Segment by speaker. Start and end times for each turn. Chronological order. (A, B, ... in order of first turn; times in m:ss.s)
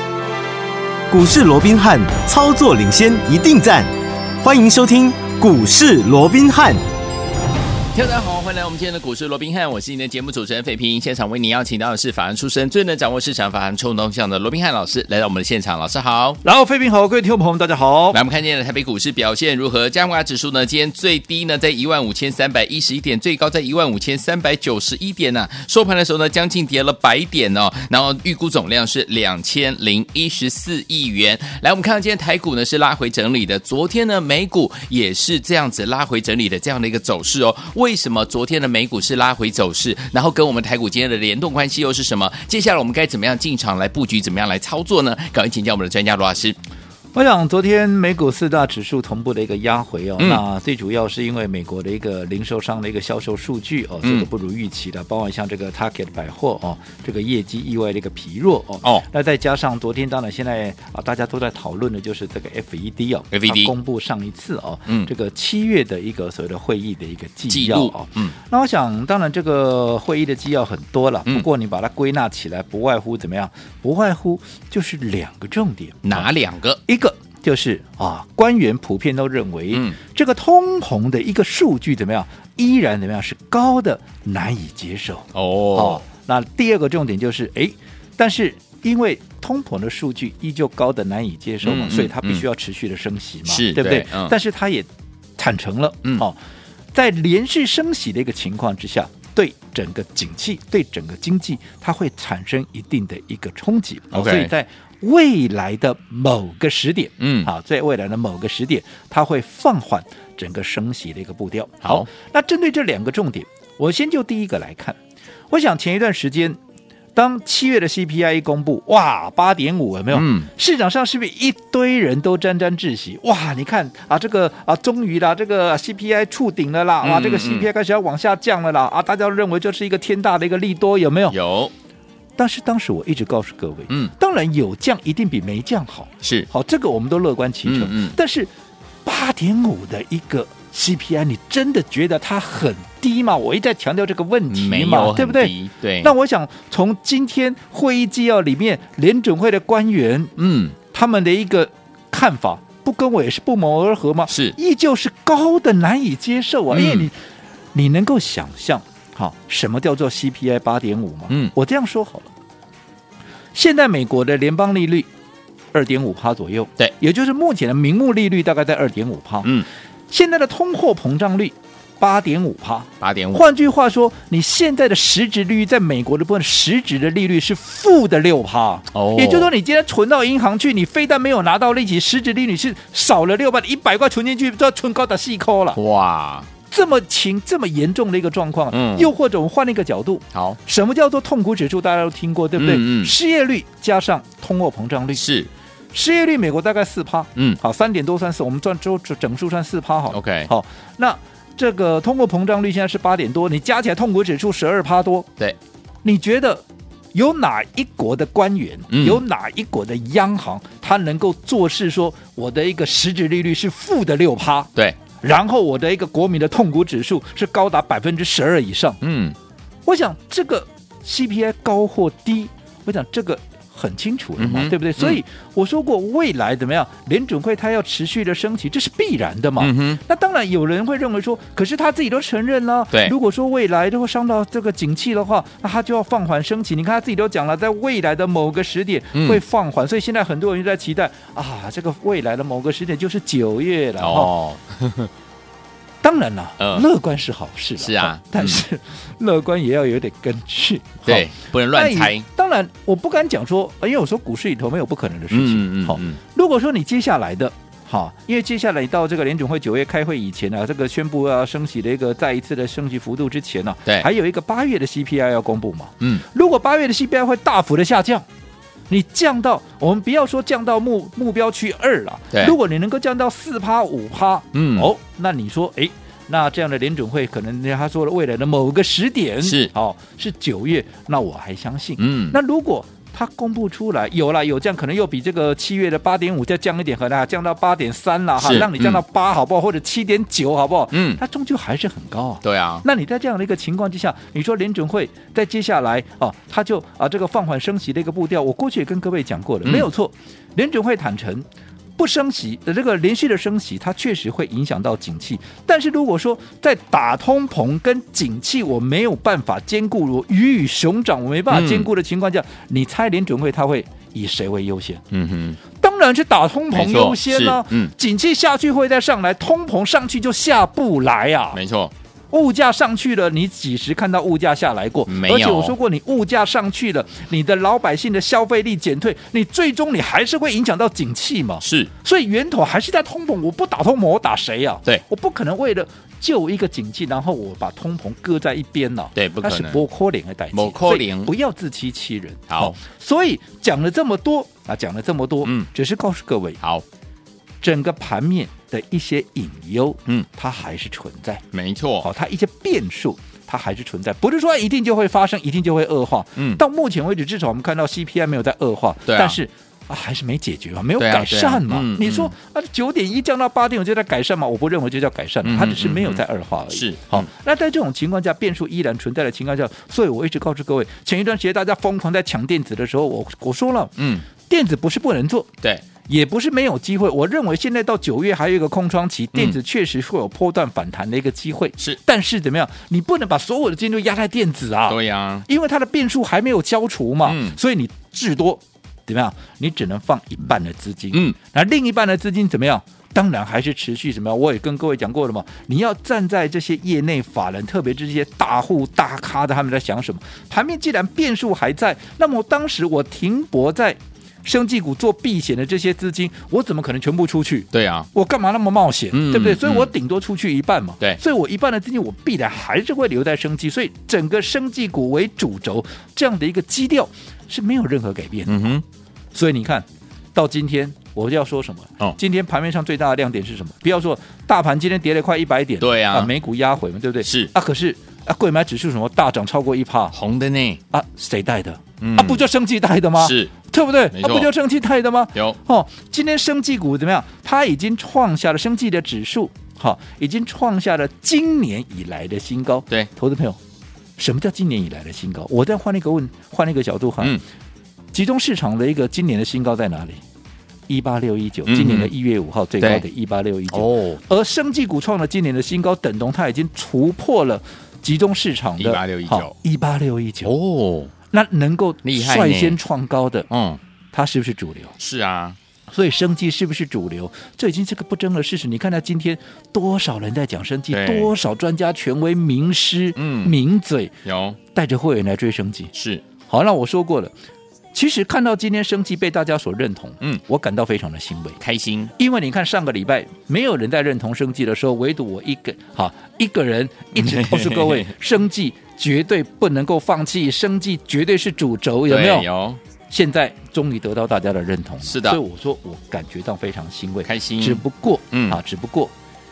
0:01.1-0:03.9 A
0:04.4-0:06.8 A
0:07.9-0:16.4 B
0:16.4-0:18.2 C
0:18.1-0:46.6 B
0:47.1-1:16.3 C
0:54.0-0:54.3 B
1:03.3-1:03.7 B
1:07.5-1:08.3 B
1:16.0-1:16.8 B
1:16.8-1:34.9 C
1:25.3-1:26.0 B
1:31.6-1:32.4 B
1:33.5-1:34.3 B
1:35.4-1:36.4 C
1:36.9-1:55.0 C
1:44.1-1:44.5 B
1:47.2-1:47.5 B
1:51.8-1:52.1 B
1:55.5-1:56.6 C
1:57.1-2:11.4 C
2:00.1-2:00.5 B
2:07.0-2:07.7 B
2:11.3-2:11.7 B
2:12.4-2:18.5 C
2:16.2-2:16.5 B
2:17.6-2:18.2 B
2:19.0-2:30.4 C
2:24.5-2:26.1 B
2:30.4-2:30.8 B
2:30.9-2:37.2 C
2:34.3-2:34.6 B
2:36.7-2:37.1 B
2:37.7-2:42.3 C
2:41.3-2:41.5 B
2:43.5-2:45.1 C
2:45.7-2:49.5 C
2:50.1-3:05.8 C
2:53.0-2:53.4 B
2:58.9-2:59.5 B
3:05.7-3:06.5 B
3:06.7-3:15.2 C
3:08.7-3:09.1 B
3:10.3-3:10.6 B
3:12.6-3:13.1 B
3:15.1-3:15.5 B
3:15.9-3:25.3 C
3:20.1-3:20.5 B
3:26.0-3:39.0 C
3:28.9-3:29.2 B
3:39.0-3:39.4 B
3:39.8-4:04.3 C
3:44.4-3:45.2 B
3:49.6-3:50.0 B
3:59.1-3:59.4 B
4:04.0-4:05.1 B
4:06.0-4:28.2 C
4:06.6-4:06.8 B
4:07.8-4:08.6 B
4:11.0-4:12.3 B
4:15.3-4:16.2 B
4:28.9-5:01.4 C
4:34.5-4:34.9 B
4:39.4-4:39.7 B
4:42.0-4:42.4 B
4:48.4-4:49.0 B
4:50.9-4:51.2 B
4:52.4-4:52.8 B
5:02.0-5:15.0 C
5:11.5-5:11.9 B
5:15.1-5:15.6 B
5:15.8-5:21.6 C
5:16.7-5:17.9 B
5:21.5-5:21.9 B
5:22.3-5:46.6 C
5:25.1-5:25.8 B
5:31.6-5:31.9 B
5:39.1-5:39.8 B
5:40.5-5:41.3 B
5:42.5-5:42.8 B
5:45.4-5:45.7 B
5:47.6-5:51.4 C
5:51.5-5:52.1 B
5:52.0-6:15.5 C
5:59.0-5:59.4 B
6:01.0-6:02.3 B
6:05.4-6:07.3 B
6:14.0-6:14.2 B
6:16.0-6:58.8 C
6:24.9-6:25.4 B
6:27.2-6:27.6 B
6:47.7-6:48.1 B
6:49.1-6:49.9 B
6:58.5-6:58.8 B
6:59.3-7:10.2 C
7:05.8-7:06.3 B
7:07.2-7:07.5 B
7:10.1-7:10.8 B
7:10.9-7:23.6 C
7:12.0-7:12.4 B
7:13.2-7:13.5 B
7:14.1-7:14.5 B
7:24.2-7:27.4 C
7:28.1-7:30.2 C
7:30.9-7:40.5 C
7:31.6-7:32.1 B
7:33.7-7:34.2 B
7:38.8-7:39.5 B
7:40.4-7:41.1 B
7:41.3-7:43.5 C
7:42.0-7:42.8 B
7:43.5-7:43.8 B
7:44.1-7:44.9 C
7:45.0-7:45.6 B
7:45.9-7:54.2 C
7:50.9-7:51.3 B
7:53.2-7:53.5 B
7:54.2-7:54.6 B
7:54.7-7:55.9 C
7:55.9-7:56.2 B
7:56.5-7:57.3 C
7:57.9-8:01.6 C
8:01.6-8:02.1 B
8:02.2-8:12.5 C
8:07.1-8:08.1 B
8:12.1-8:12.8 B
8:13.1-8:19.1 C
8:15.0-8:15.4 B
8:17.2-8:18.6 B